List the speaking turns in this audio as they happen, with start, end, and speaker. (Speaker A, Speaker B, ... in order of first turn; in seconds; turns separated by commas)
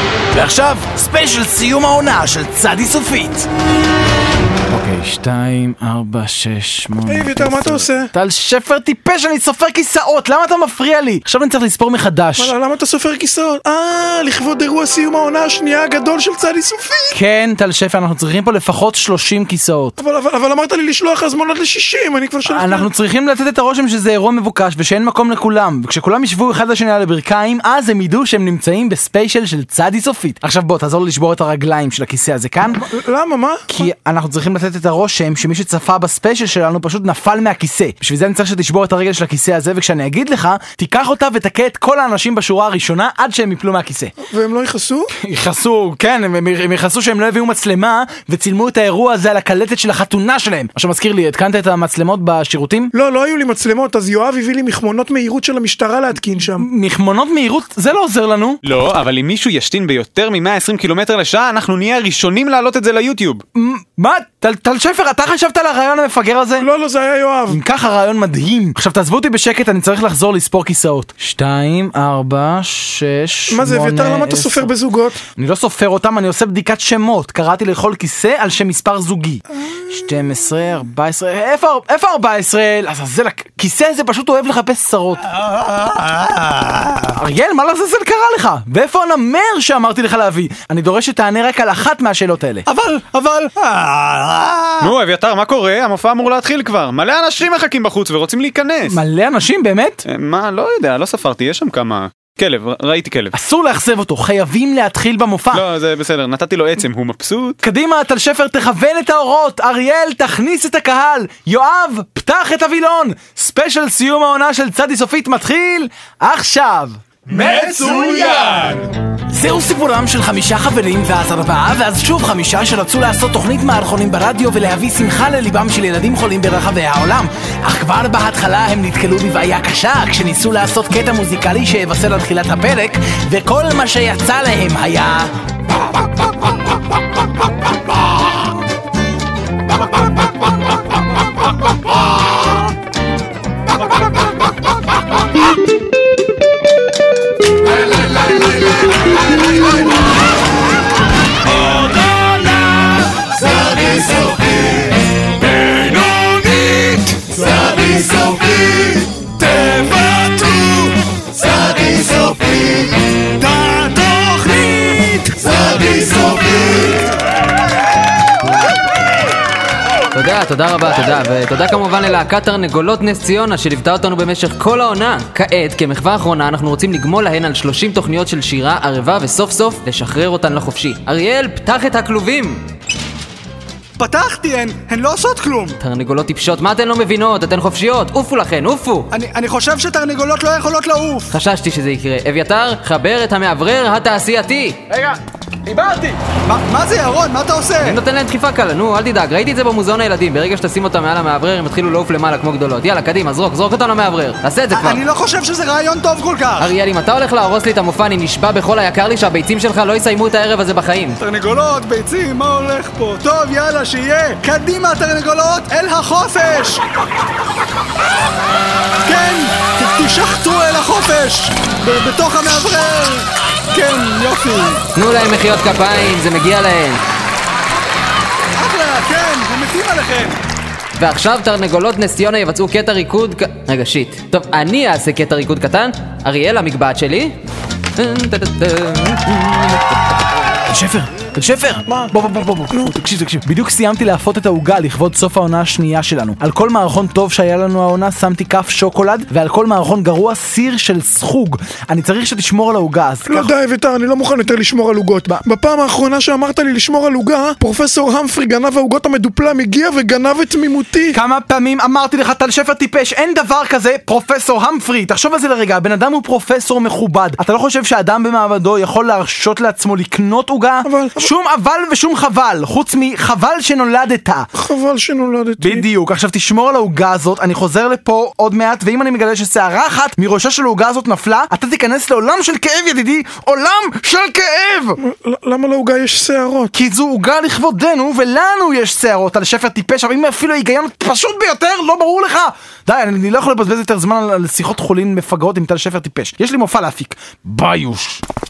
Speaker A: 0.3-3.5, Speaker A: 4.7-12.5, Speaker B: 7.0-8.1, Speaker B: 12.4-17.2, Speaker A: 17.1-19.9, Speaker B: 20.0-22.9, Speaker A: 22.5-32.9, Speaker B: 32.8-33.9, Speaker A: 33.7-44.1, Speaker B: 44.3-45.1, Speaker A: 45.2-52.9, Speaker B: 52.9-56.7, Speaker A: 56.5-58.6, Speaker C: 58.6-63.4, Speaker A: 63.6-66.7, Speaker B: 66.6-67.6, Speaker A: 67.5-74.7, Speaker B: 73.5-75.2, Speaker A: 75.4-85.3, Speaker D: 85.3-87.2, Speaker A: 87.2-92.7, Speaker D: 92.7-94.9, Speaker C: 94.8-99.0, Speaker A: 98.9-100.0, Speaker C: 100.0-103.3, Speaker A: 103.3-105.7, Speaker C: 105.5-107.6, Speaker A: 107.6-118.5, Speaker C: 117.3-118.9, Speaker D: 117.4-118.4, Speaker A: 119.3-135.3, Speaker D: 163.6-164.7, Speaker D: 165.2-166.8, Speaker E: 170.1-182.6, Speaker D: 184.0-185.8, Speaker E: 185.8-189.1, Speaker D: 189.1-191.3, Speaker E: 191.3-194.8, Speaker A: 194.9-196.2, Speaker D: 196.4-198.0, Speaker E: 197.8-205.0, Speaker D: 204.7-206.7, Speaker E: 206.6-211.2, Speaker D: 211.2-216.8, Speaker D: 219.0-224.8, Speaker E: 225.0-227.0, Speaker D: 228.6-230.4, Speaker E: 231.0-237.4, Speaker E: 238.0-239.9, Speaker A: 240.7-253.5, Speaker B: 241.9-242.1, Speaker B: 253.3-261.2, Speaker A: 261.1-274.5, Speaker B: 270.8-271.3, Speaker B: 274.6-275.9, Speaker A: 275.6-285.0, Speaker B: 285.0-286.7, Speaker A: 286.7-298.2